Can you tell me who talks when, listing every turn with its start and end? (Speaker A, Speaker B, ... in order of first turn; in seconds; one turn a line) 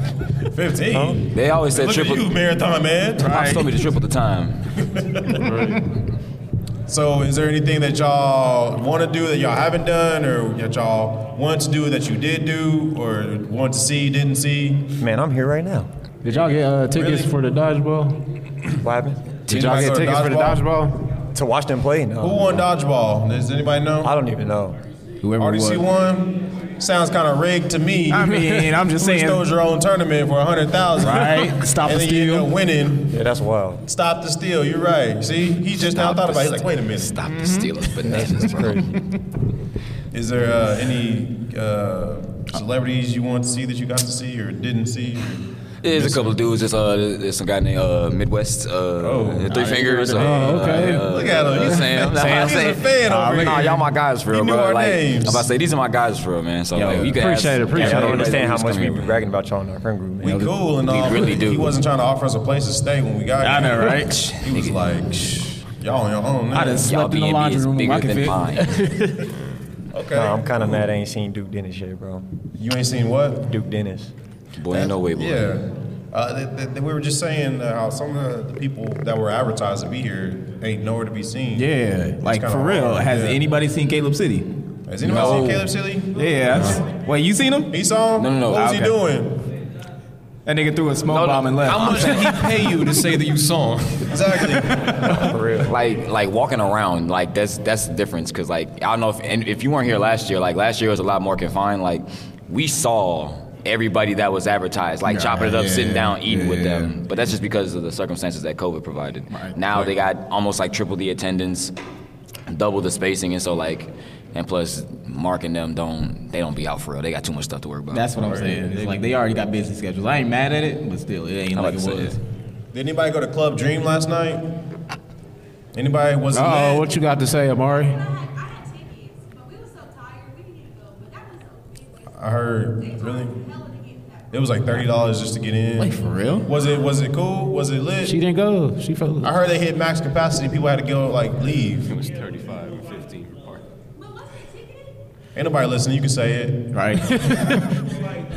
Speaker A: 0.4-3.4
Speaker B: 0.9-1.3
Speaker C: 1.3-2.3
Speaker D: 3.2-3.7
Speaker C: 3.3-4.8
Speaker A: 4.9-5.5
Speaker A: 6.9-14.9
Speaker B: 15.0-15.9
Speaker E: 16.2-18.2
Speaker A: 16.9-17.3
Speaker B: 18.8-19.4
Speaker A: 19.5-20.7
Speaker E: 19.5-21.0
Speaker B: 21.3-22.6
Speaker A: 22.2-24.1
Speaker B: 24.0-24.8
Speaker D: 25.2-25.8
Speaker A: 25.4-33.2
Speaker D: 28.1-29.4
Speaker D: 31.0-32.5
Speaker B: 33.1-33.8
Speaker A: 33.9-37.2
Speaker C: 35.9-38.9
Speaker D: 37.3-37.7
Speaker B: 38.0-39.0
Speaker A: 40.1-46.4
Speaker C: 45.8-59.2
Speaker A: 49.0-55.5
Speaker D: 49.5-51.1
Speaker E: 50.2-51.0
Speaker D: 52.0-53.8
Speaker D: 56.7-58.5
Speaker B: 57.7-60.5
Speaker A: 60.2-66.9
Speaker C: 60.8-61.8
Speaker D: 63.4-64.3
Speaker C: 64.1-64.7
Speaker D: 66.5-69.3
Speaker C: 66.8-68.8
Speaker A: 69.9-70.8
Speaker B: 70.1-72.3
Speaker A: 72.5-73.5
Speaker B: 73.5-74.1
Speaker C: 74.6-75.5
Speaker A: 74.7-83.4
Speaker D: 81.5-84.5
Speaker A: 84.9-86.8
Speaker D: 85.0-87.8
Speaker A: 87.7-89.4
Speaker C: 88.2-88.7
Speaker D: 88.5-88.9
Speaker D: 90.5-92.1
Speaker F: 91.1-94.6
Speaker C: 91.8-92.4
Speaker A: 94.1-95.3
Speaker B: 95.0-95.8
Speaker C: 95.7-111.7
Speaker D: 105.0-107.0
Speaker D: 109.3-110.0
Speaker C: 112.5-118.1
Speaker D: 117.9-122.2
Speaker A: 118.2-118.6
Speaker C: 121.5-122.2
Speaker A: 122.7-124.5
Speaker A: 125.7-127.0
Speaker E: 126.3-128.0
Speaker G: 127.8-134.6
Speaker A: 132.1-133.4
Speaker A: 134.3-138.2
Speaker D: 135.8-136.5
Speaker E: 138.0-139.3
Speaker A: 139.2-142.0
Speaker F: 141.9-143.6
Speaker G: 144.0-145.0
Speaker A: 145.3-146.8
Speaker D: 146.7-147.7